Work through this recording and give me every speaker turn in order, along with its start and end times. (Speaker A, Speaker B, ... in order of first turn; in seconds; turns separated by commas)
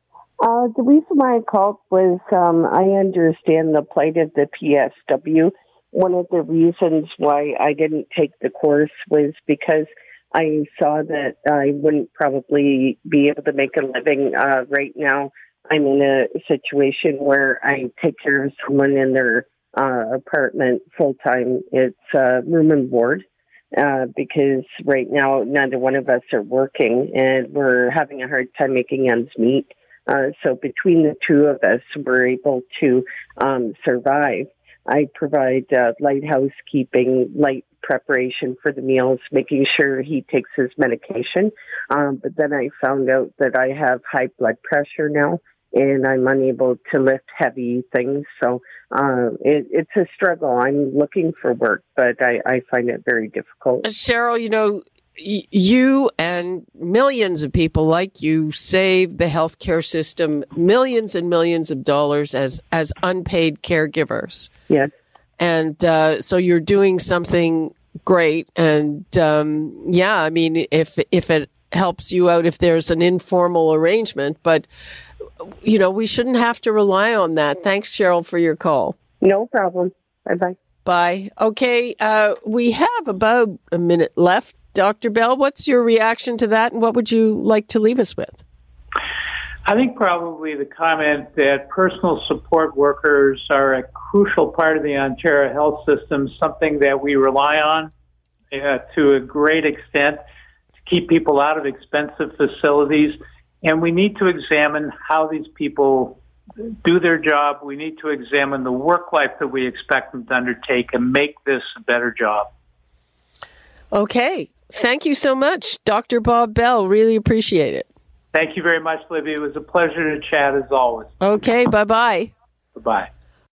Speaker A: 0.4-53.9, Speaker B: 53.8-64.5, Speaker B: 65.4-74.7, Speaker B: 75.4-79.0, Speaker A: 79.2-80.6, Speaker B: 80.8-88.4, Speaker C: 89.7-97.9, Speaker C: 98.5-100.2, Speaker C: 100.8-106.2, Speaker C: 106.8-112.5, Speaker B: 113.9-117.9, Speaker C: 118.3-121.1, Speaker B: 121.2-122.3, Speaker C: 122.8-123.1